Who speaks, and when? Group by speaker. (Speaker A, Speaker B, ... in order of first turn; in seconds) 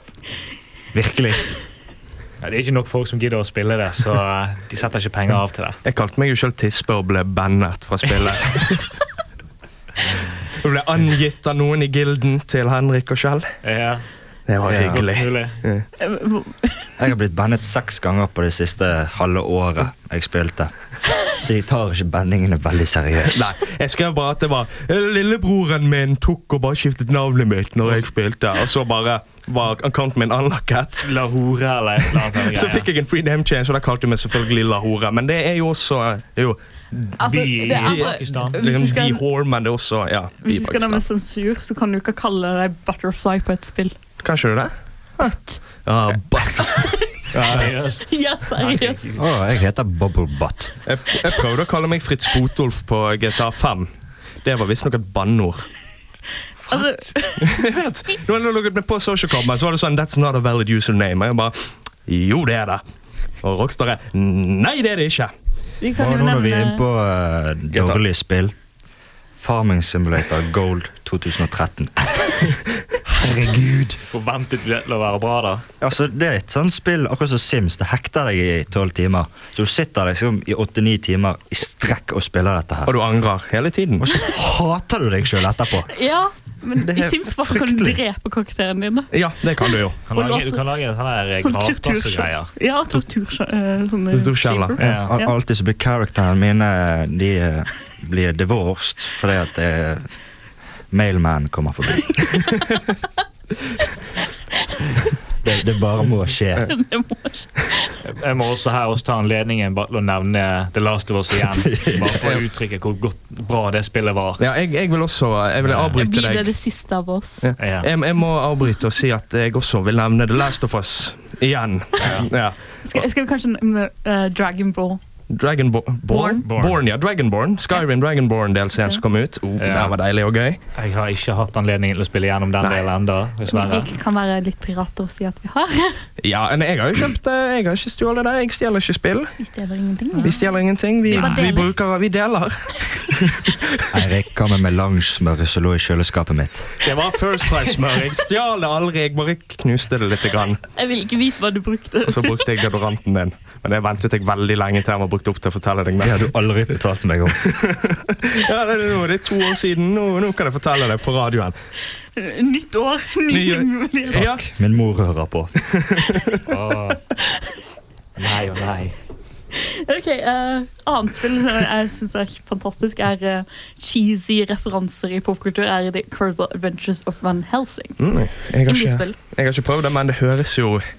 Speaker A: 0.9-1.5, 14.7-15.0, 17.0-20.7, 21.2-23.5, 49.1-50.7, 65.9-68.5, 69.3-72.3, 73.0-74.0, 75.8-83.0, 84.0-85.9, 86.8-88.0, 95.0-100.1, 100.9-102.4, 105.4-106.7, 111.6-112.2, 143.9-146.7, 156.0-157.6, 164.1-165.5
Speaker B: 2.4-5.8, 13.6-14.1, 14.7-15.6, 31.0-32.9, 37.2-38.6, 47.3-49.2, 74.1-75.6, 90.1-92.5, 94.8-95.1, 108.0-114.4, 115.6-116.0, 117.6-117.9, 122.0-122.3, 126.4-126.8, 129.6-129.9, 130.7-133.9, 140.1-140.5, 141.1-141.6, 166.5-167.0, 168.2-168.9
Speaker C: 5.8-8.9, 10.6-13.5, 14.5-15.9, 23.3-31.1, 32.4-37.1, 37.7-41.0, 44.2-47.7, 50.8-53.9, 54.4-55.7, 57.4-62.8, 63.4-65.3, 67.7-68.0, 82.8-84.1, 89.1-90.0, 94.1-94.8, 114.4-116.5, 117.4-123.0, 125.3-130.6, 136.2-139.3, 140.2-143.6, 146.8-150.6, 152.1-156.3, 157.4-161.6, 163.3-164.4, 165.7-166.4, 178.0-180.8
Speaker D: 16.0-16.9, 37.2-39.2, 40.4-43.9, 45.2-45.6, 46.5-47.0, 48.1-49.1, 56.7-57.8, 65.8-66.8, 85.9-90.6, 91.4-95.3, 106.7-108.0, 116.0-117.5, 122.8-125.0, 126.1-126.5, 133.5-136.1, 139.4-141.8, 150.7-152.5, 162.2-164.3, 169.5-179.2